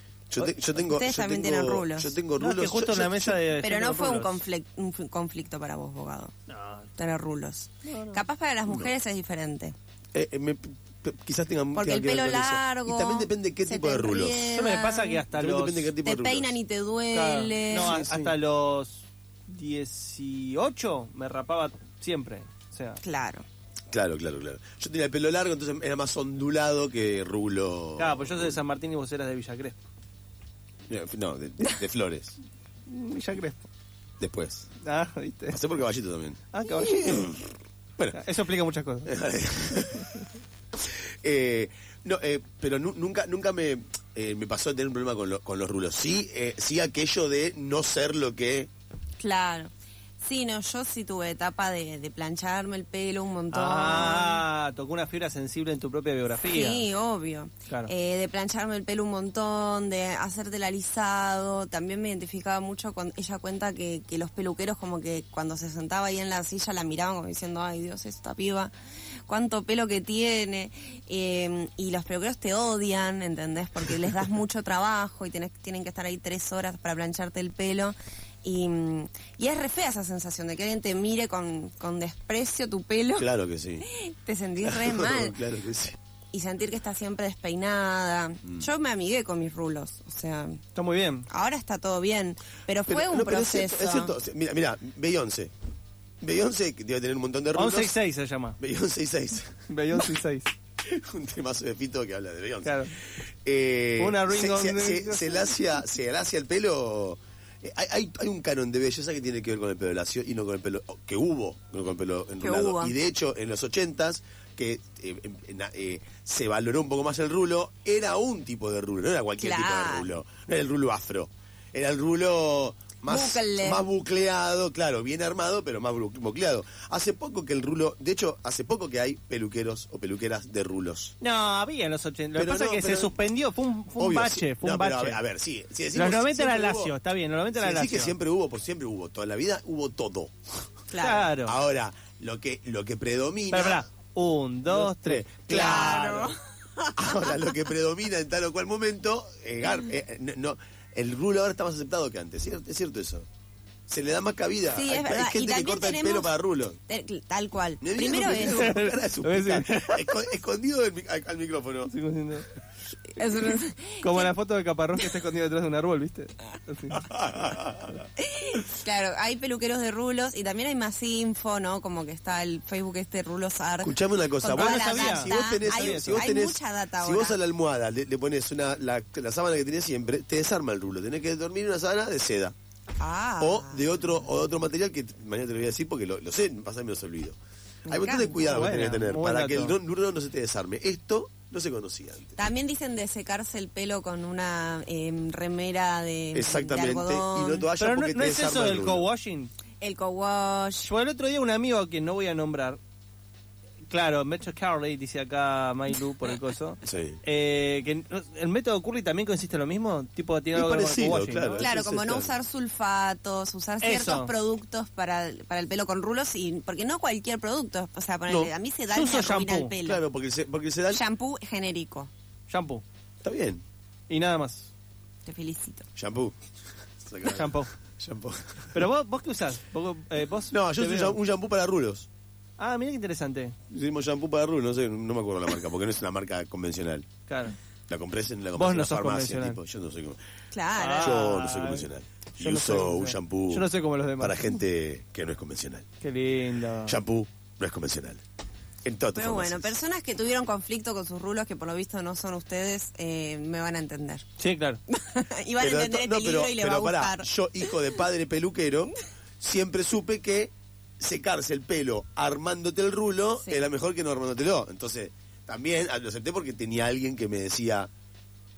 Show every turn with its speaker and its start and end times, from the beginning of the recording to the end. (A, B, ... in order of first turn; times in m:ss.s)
0:00.3-0:03.4 A
0:00.4-0:02.1 B
0:02.4-0:04.4 C
0:03.6-0:06.3 B
0:06.5-0:06.9 C
0:07.0-0:09.8 B
0:07.8-0:08.2 C
0:10.2-0:14.5 A
0:11.7-0:15.2 B
0:14.5-0:15.9 C
0:15.3-0:16.6 A
0:16.0-0:18.0 B
0:17.1-0:23.0 C
0:17.7-0:18.3 A
0:23.0-0:23.4 B
0:23.9-0:28.6 A
0:28.0-0:29.8 C
0:30.9-0:32.4 A
0:32.9-0:33.7 C
0:34.2-0:34.7 A
0:34.8-0:35.6 C
0:35.5-0:37.4 A
0:36.5-0:37.4 C
0:38.1-0:39.1 C
0:39.1-0:40.3 A
0:40.8-0:48.7 A
0:49.2-0:54.4 B
0:53.5-0:56.9 C
0:56.5-1:08.7 B
1:09.3-1:23.3 B
1:23.2-1:23.9 A
1:23.8-1:25.4 B
1:24.6-1:26.0 A
1:26.3-1:30.6 B
1:30.8-1:31.3 C
1:31.3-1:34.2 B
1:32.9-1:35.5 A
1:36.2-1:38.0 A
1:37.6-1:38.6 C
1:38.6-1:39.6 A
1:39.7-1:40.5 C
1:40.8-2:11.2 A
1:42.6-1:43.0 C
1:44.0-1:45.6 C
1:52.4-1:53.0 B
1:59.4-2:00.1 B
2:03.1-2:03.8 B
2:11.2-2:15.2 C
2:12.4-2:13.1 A
2:14.0-2:17.0 A
2:15.9-2:18.1 C
2:17.6-2:20.4 A
2:20.9-2:21.3 B
2:21.0-2:21.6 C
2:21.4-2:23.9 A
2:23.5-2:26.4 C
2:24.7-2:26.1 A
2:25.5-2:27.5 B
2:27.0-2:33.3 A
2:33.9-2:36.8 A
2:34.7-2:36.4 B
2:36.9-2:38.8 B
2:37.8-2:41.9 A
2:38.1-2:40.1 C
2:41.8-2:42.5 C
2:43.1-2:44.3 B
2:44.0-2:47.2 C
2:47.0-2:48.0 A
2:48.2-2:57.4 B
2:53.8-3:02.5 A
2:54.5-2:56.3 C
3:03.0-3:03.9 B
3:03.4-3:07.4 A
3:07.9-3:08.5 B
3:07.9-3:12.4 A
3:08.5-3:09.8 C
3:12.4-3:17.7 B
3:16.3-3:19.1 A
3:17.8-3:19.5 C
3:19.8-3:20.9 B
3:20.8-3:22.8 C
3:23.9-3:31.7 C
3:26.8-3:27.2 A
3:30.5-3:32.4 A
3:31.6-3:40.0 B
3:33.8-3:34.3 C
3:38.9-3:39.8 C
3:39.8-3:41.0 A
3:40.9-3:42.1 B
3:42.5-3:42.8 C
3:43.2-3:43.6 A
3:44.1-3:44.7 C
3:45.2-3:45.9 B
3:46.0-3:46.4 A
3:47.0-3:48.8 A
3:47.3-3:47.7 C
3:48.7-3:51.2 C
3:50.5-3:52.1 A
3:52.6-3:53.6 C
3:53.7-3:57.1 A
3:57.3-3:57.6 C
3:57.9-4:00.2 A
3:58.6-3:59.6 C
4:00.5-4:01.3 B
4:00.8-4:04.4 C
4:01.0-4:03.7 A
4:04.2-4:05.9 A
4:06.0-4:07.0 C
4:06.9-4:08.2 A
4:08.8-4:09.8 A
4:09.1-4:14.3 B
4:14.4-4:14.8 C
4:14.9-4:17.8 B
4:15.6-4:27.9 A